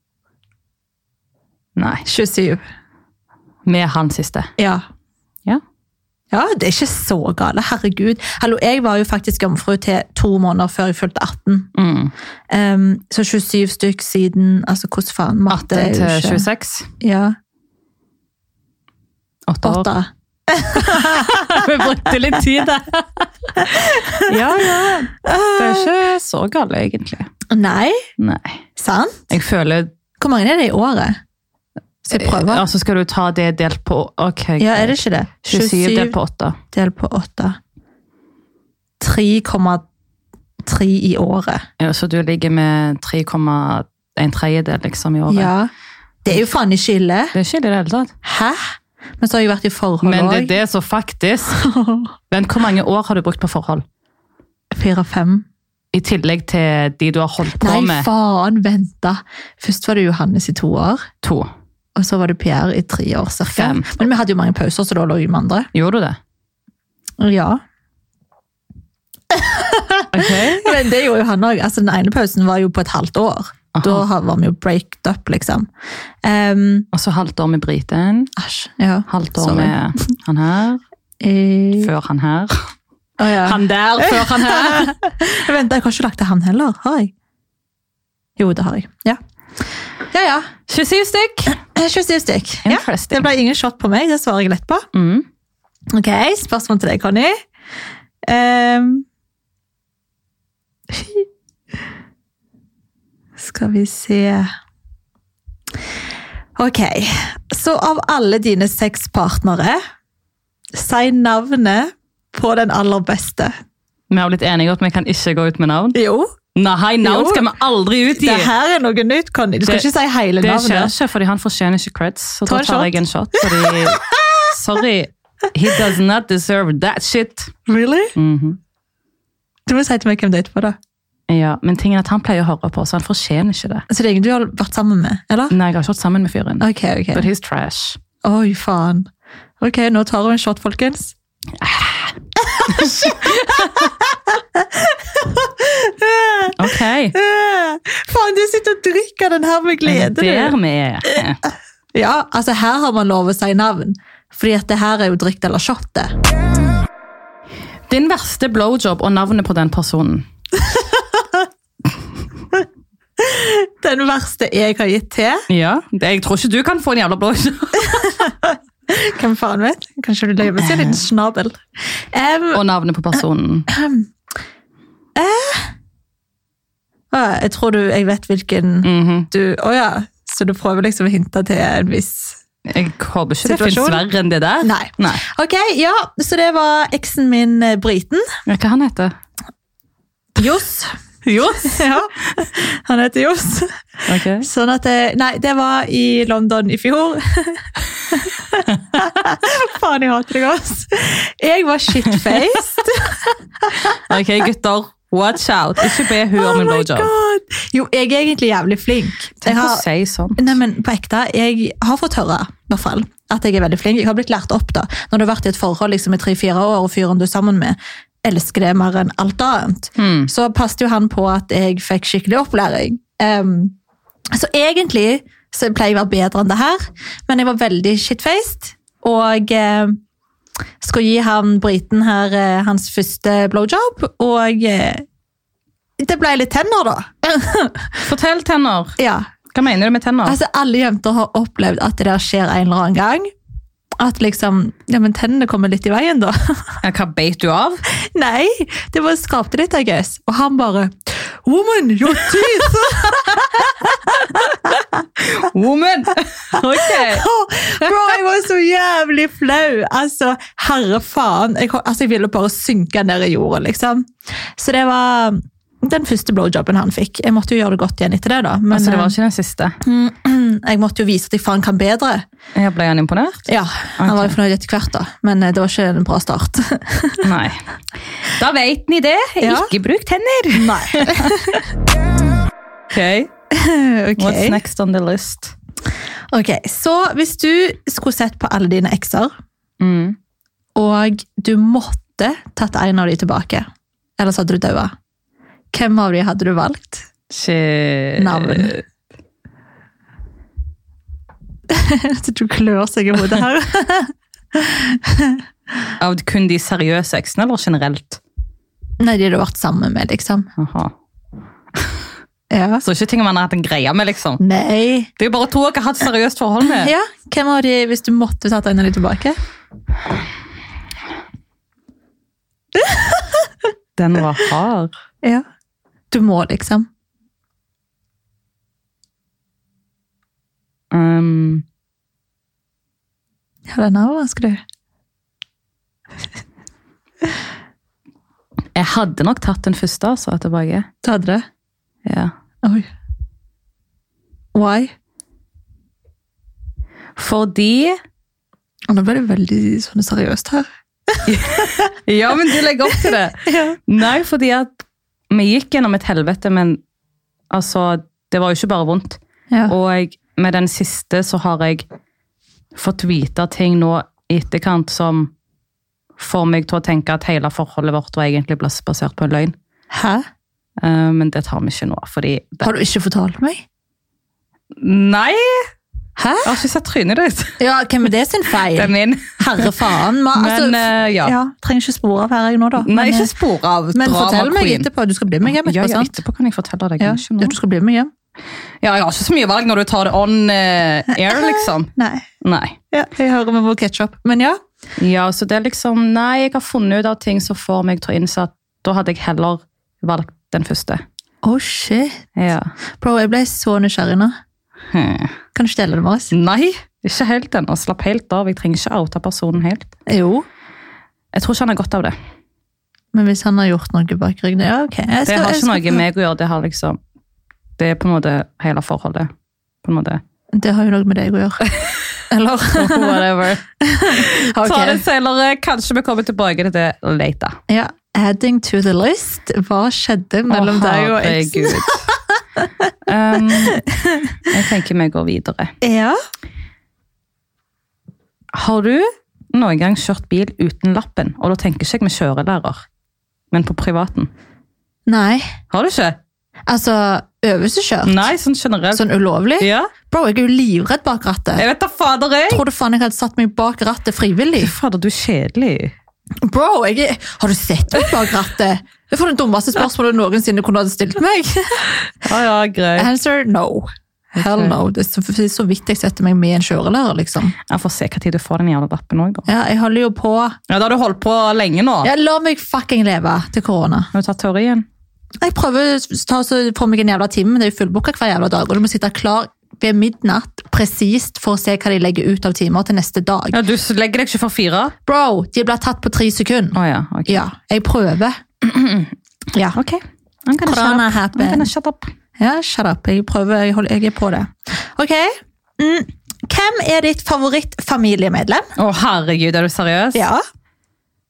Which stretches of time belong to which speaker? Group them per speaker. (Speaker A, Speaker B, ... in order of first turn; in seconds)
Speaker A: 1.8-2.0, 3.6-4.5, 11.7-12.1, 15.5-16.9, 19.5-19.9, 20.7-23.7, 24.3-27.3, 28.2-28.6, 29.3-29.9, 32.1-36.6, 41.8-45.5, 47.3-48.1, 50.0-51.6, 52.3-53.8, 55.9-58.1, 61.2-61.5, 63.5-63.9, 65.7-66.2, 70.1-70.8, 73.7-74.0, 76.9-78.3, 79.1-80.8, 81.8-82.7, 83.4-84.9, 90.7-91.6, 92.7-93.3, 94.9-95.2, 114.1-116.0, 116.5-118.5, 120.4-127.5, 128.1-128.6, 131.3-133.8, 135.5-138.0, 141.6-142.1, 142.7-143.1, 146.6-147.1, 149.8-151.4, 157.9-160.2, 165.5-168.2, 170.5-171.0, 172.5-173.7, 178.8-179.3, 182.7-185.2, 188.4-189.1, 191.2-191.8, 194.1-194.5, 203.8-207.1, 209.4-210.6, 220.0-220.3, 238.0-238.9, 239.5-240.4, 246.8-247.8, 255.2-257.2, 268.7-269.8, 272.5-273.5, 274.0-274.4, 277.2-277.6, 278.2-281.4, 282.9-283.3, 284.2-285.5, 289.8-290.2, 297.3-298.8, 306.0-308.2, 310.6-310.9, 312.8-314.4, 315.2-316.9, 324.0-324.9, 330.9-331.6, 338.7-340.9, 342.0-342.3, 347.1-348.0, 351.3-356.8, 357.5-361.9, 362.7-365.3, 366.2-369.5, 370.8-372.7, 374.7-375.7, 376.4-377.6, 378.7-379.8, 380.3-381.4, 382.8-384.9, 385.4-387.5, 388.8-391.9, 392.4-392.8, 395.0-401.0, 402.4-402.7, 404.9-405.3, 406.3-409.9, 411.3-412.1, 415.2-417.0, 417.8-419.3, 419.8-420.2, 422.7-427.6, 430.5-432.1, 433.0-433.8, 434.5-435.7, 438.5-442.8, 443.5-444.3, 445.7-446.2, 448.0-449.0, 449.6-449.9, 451.6-452.6, 454.6-455.9, 462.2-463.1, 464.4-464.8, 467.7-469.5, 470.7-472.1, 474.1-474.9, 483.5-484.9, 486.7-487.4, 488.6-489.1, 489.8-492.1, 498.8-500.2
Speaker B: 2.0-2.6, 4.6-4.8, 6.3-11.7, 12.5-16.4, 17.0-17.3, 19.6-21.6, 23.6-25.9, 27.5-28.1, 28.8-29.3, 30.2-31.2, 32.0-32.6, 34.6-36.1, 36.7-37.6, 39.0-39.8, 40.6-41.6, 45.3-45.7, 46.2-47.3, 48.2-50.5, 51.5-52.1, 54.7-55.5, 57.6-61.1, 62.0-65.7, 67.2-67.6, 69.3-75.7, 76.2-76.9, 78.3-79.8, 81.2-81.9, 83.2-87.1, 88.4-89.2, 90.1-90.5, 91.5-94.9, 95.9-97.4, 98.2-99.0, 100.9-101.2, 103.4-104.5, 106.5-109.8, 110.7-113.5, 115.9-116.3, 117.0-117.5, 118.1-120.9, 122.5-124.5, 127.7-128.1, 129.7-130.8, 133.9-135.5, 136.6-137.3, 138.2-139.1, 139.6-141.1, 142.4-150.6, 151.9-156.1, 160.7-161.4, 163.2-165.5, 167.8-172.6, 173.7-174.1, 175.2-175.7, 177.1-182.4, 183.4-184.0, 184.6-188.2, 190.3-204.0, 206.3-209.8, 210.4-223.7, 224.3-230.0, 230.8-235.0, 236.0-238.0, 239.0-239.3, 240.2-243.3, 244.0-246.8, 247.9-254.8, 256.7-269.1, 269.8-272.2, 273.5-277.3, 279.4-279.7, 280.5-281.7, 283.5-284.6, 286.3-289.3, 290.8-293.6, 294.2-294.9, 295.7-297.1, 298.2-298.8, 301.7-305.4, 309.0-310.5, 312.5-312.8, 314.4-315.1, 316.6-319.4, 322.8-323.4, 326.1-326.9, 333.7-334.6, 341.0-341.4, 344.5-344.9, 348.9-351.9, 352.9-353.8, 369.9-370.2, 372.6-373.6, 376.2-376.6, 377.6-383.3, 383.9-386.1, 387.0-388.1, 391.2-392.3, 392.9-394.6, 401.4-402.3, 403.0-404.3, 405.5-406.3, 410.1-410.4, 413.1-416.0, 420.5-421.6, 422.3-423.2, 423.8-425.0, 427.7-432.0, 433.9-434.3, 435.8-436.2, 445.1-445.5, 446.7-448.3, 448.9-451.6, 452.5-454.7, 456.4-462.1, 463.0-467.6, 469.5-470.6, 472.0-474.1, 475.4-483.6, 485.1-488.4, 489.5-489.8, 490.6-491.7, 492.4-498.7, 500.1-500.4